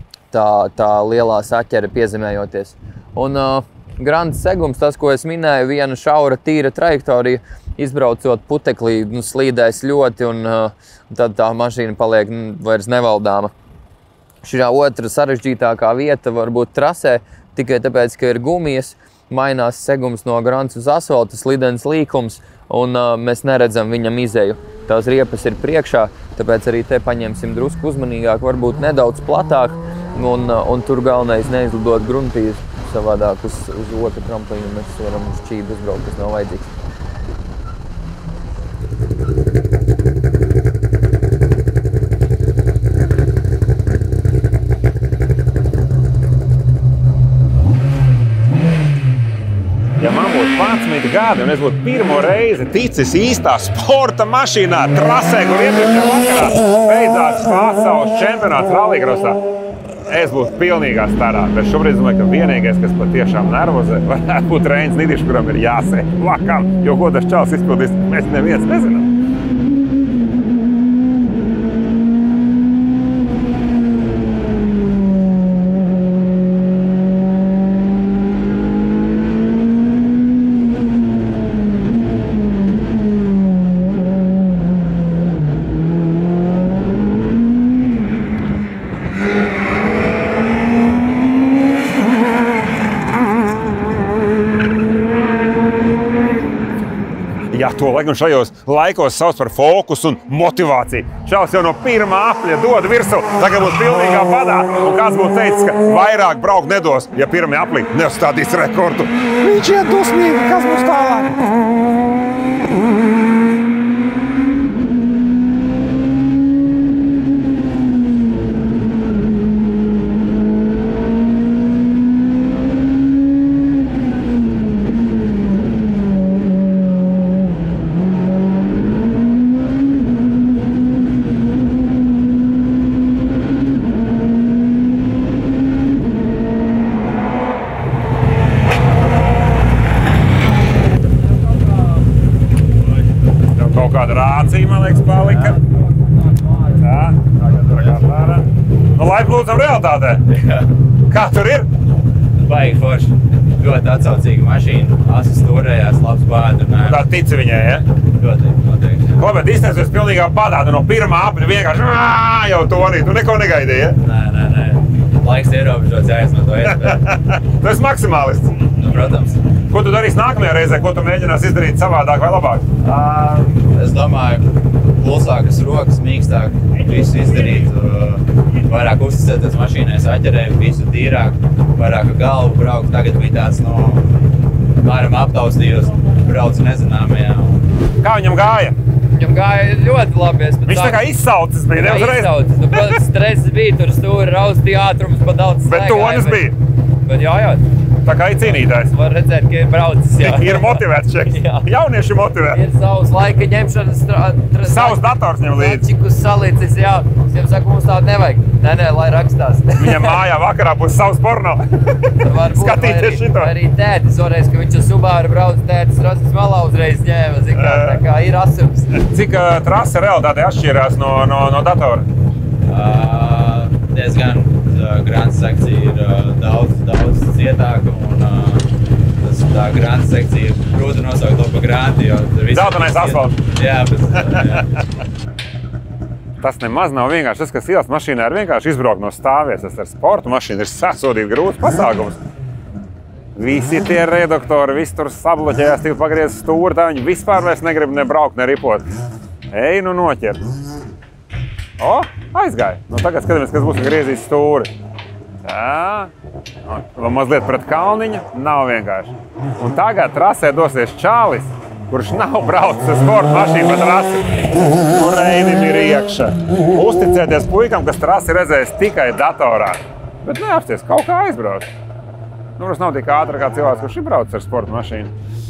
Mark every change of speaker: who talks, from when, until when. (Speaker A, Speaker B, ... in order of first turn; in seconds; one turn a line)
Speaker A: 0.3-13.5
Speaker A: 14.4-36.7
Speaker B: 50.0-59.4
Speaker B: 60.1-69.1
Speaker B: 97.5-111.4
Speaker B: 143.6-145.6
Speaker B: 146.8-150.3
Speaker C: 150.3-150.6
Speaker B: 151.1-151.7
Speaker C: 152.4-157.1
Speaker B: 156.8-157.9
Speaker C: 158.2-159.2
Speaker B: 159.2-164.0
Speaker C: 164.0-167.0
Speaker B: 166.7-168.6
Speaker C: 168.8-169.4
Speaker B: 169.7-172.7
Speaker C: 172.8-184.0
Speaker C: 184.8-187.6
Speaker B: 188.0-188.8
Speaker A: 189.2-191.0
Speaker B: 190.7-193.0
Speaker A: 191.7-196.4
Speaker B: 195.7-196.6
Speaker A: 197.1-197.6
Speaker B: 198.1-198.9
Speaker A: 198.8-201.7
Speaker B: 200.2-202.6
Speaker A: 202.5-210.2
Speaker B: 204.7-205.9
Speaker B: 209.8-213.5
Speaker A: 212.2-219.0
Speaker B: 217.6-218.0
Speaker B: 219.1-222.1
Speaker C: 222.7-228.6
Speaker C: 229.2-234.7
Speaker B: 232.5-233.4
Speaker B: 236.4-242.2
Speaker B: 243.4-248.9
Speaker B: 249.5-250.4
Speaker B: 251.8-254.7
Speaker B: 255.4-256.1
Speaker B: 256.7-271.7
Speaker B: 272.6-275.1